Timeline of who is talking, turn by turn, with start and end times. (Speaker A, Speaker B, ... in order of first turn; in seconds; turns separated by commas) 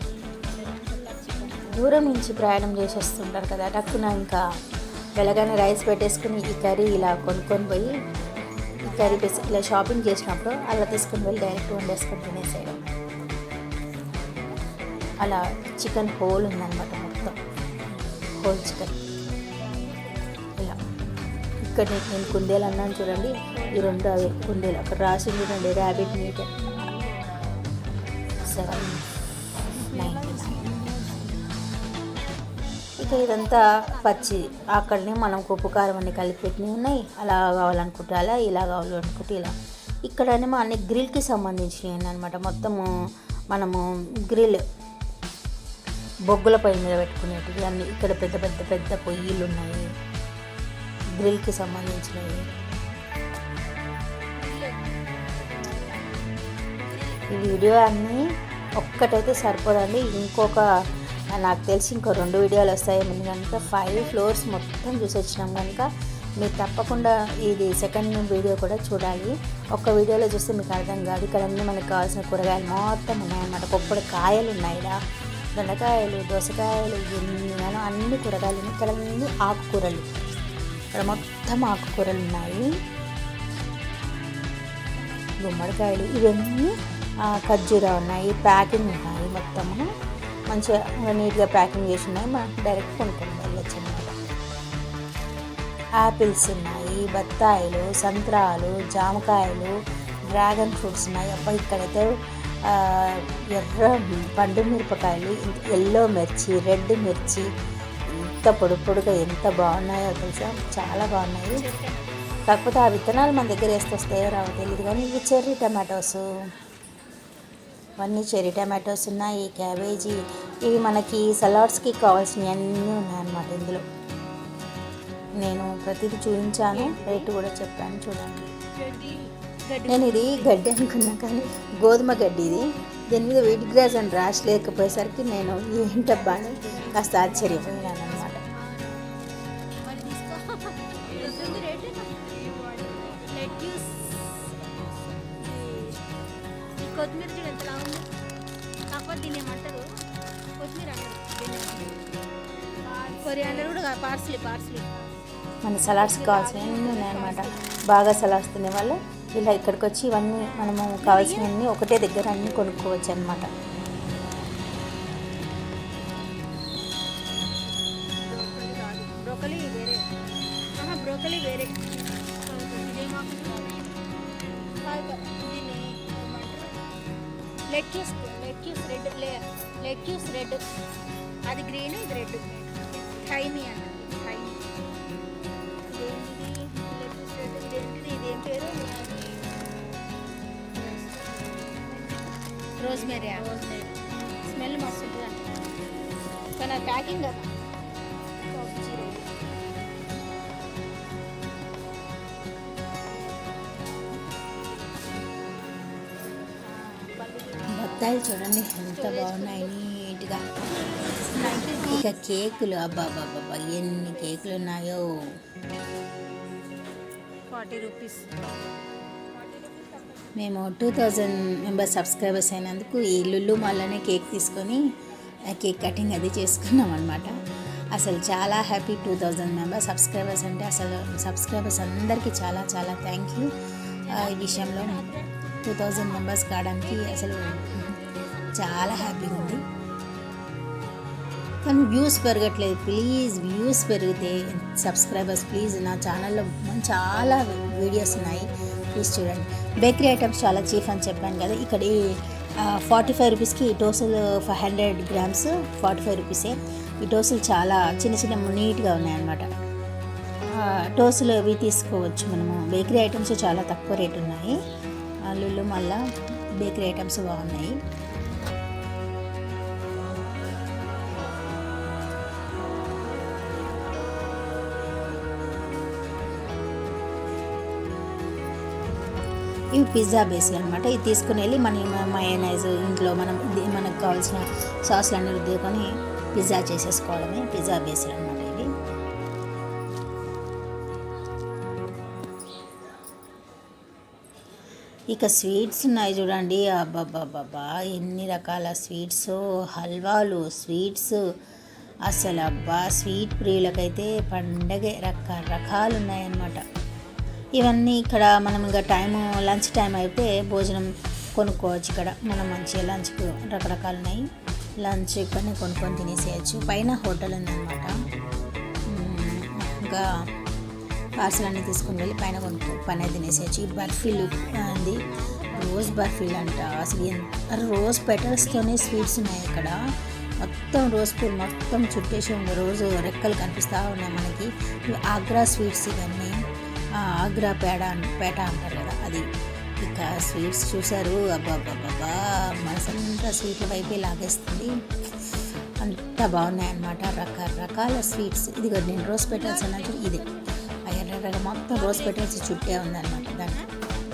Speaker A: 0.5-1.9, Speaker B: 1.7-4.4, Speaker B: 5.2-7.9, Speaker B: 8.8-12.8, Speaker A: 8.9-9.6, Speaker B: 15.2-17.4, Speaker B: 18.4-19.0, Speaker A: 19.8-20.2, Speaker B: 21.6-26.5, Speaker A: 22.2-24.7, Speaker A: 25.4-27.6, Speaker B: 28.4-29.0, Speaker A: 28.6-28.9, Speaker A: 29.8-31.4, Speaker B: 29.9-30.7, Speaker B: 33.0-39.5, Speaker A: 33.0-34.9, Speaker B: 40.0-42.9, Speaker B: 43.5-44.6, Speaker B: 46.3-49.9, Speaker B: 51.2-52.5, Speaker A: 54.4-57.7, Speaker B: 57.3-58.2, Speaker B: 58.8-60.6, Speaker B: 61.3-65.9, Speaker A: 63.9-64.3, Speaker B: 66.4-75.0, Speaker B: 75.5-80.1, Speaker B: 80.9-82.7, Speaker A: 85.0-85.3, Speaker B: 85.4-89.9, Speaker B: 90.5-94.1, Speaker B: 96.0-99.7, Speaker B: 100.3-102.0, Speaker B: 102.6-107.5, Speaker B: 108.2-111.7, Speaker A: 111.5-112.2, Speaker B: 112.5-116.3, Speaker B: 118.0-123.8, Speaker B: 125.4-128.5, Speaker A: 126.7-127.3, Speaker A: 128.7-130.7, Speaker B: 129.9-138.4, Speaker A: 136.1-139.2, Speaker A: 139.8-144.6, Speaker A: 145.3-146.0, Speaker A: 146.8-148.1, Speaker A: 148.9-149.9, Speaker A: 150.5-152.0, Speaker A: 152.8-155.1, Speaker B: 155.6-163.5, Speaker A: 155.8-157.8, Speaker A: 160.4-161.5, Speaker A: 168.2-170.1, Speaker A: 170.7-173.9, Speaker A: 174.7-176.7, Speaker A: 177.7-180.6, Speaker A: 181.4-184.6, Speaker A: 185.9-189.5, Speaker A: 190.7-195.5, Speaker B: 192.8-193.5, Speaker A: 196.6-197.6, Speaker A: 198.5-199.4, Speaker A: 203.4-203.8, Speaker A: 206.6-209.7, Speaker B: 207.7-210.5, Speaker A: 210.8-212.7, Speaker B: 211.3-215.1, Speaker A: 214.1-214.6, Speaker A: 217.5-218.8, Speaker A: 219.3-220.3, Speaker B: 220.3-224.8, Speaker B: 225.5-227.3, Speaker B: 227.9-233.5, Speaker A: 234.0-239.6, Speaker B: 234.1-235.1, Speaker B: 235.6-237.9, Speaker B: 238.5-239.6, Speaker B: 241.6-259.5, Speaker B: 260.6-264.6, Speaker B: 265.3-266.0, Speaker B: 266.6-267.8, Speaker B: 279.7-288.7, Speaker B: 295.1-301.2, Speaker B: 302.1-306.6, Speaker B: 307.6-314.2, Speaker B: 314.8-317.9, Speaker B: 318.9-320.1, Speaker B: 321.2-329.7, Speaker A: 323.7-326.2, Speaker A: 328.3-329.2, Speaker B: 330.4-336.4, Speaker B: 337.0-339.2, Speaker B: 339.8-344.7, Speaker B: 345.8-350.2, Speaker A: 349.2-350.5, Speaker B: 350.9-353.6, Speaker A: 351.7-353.7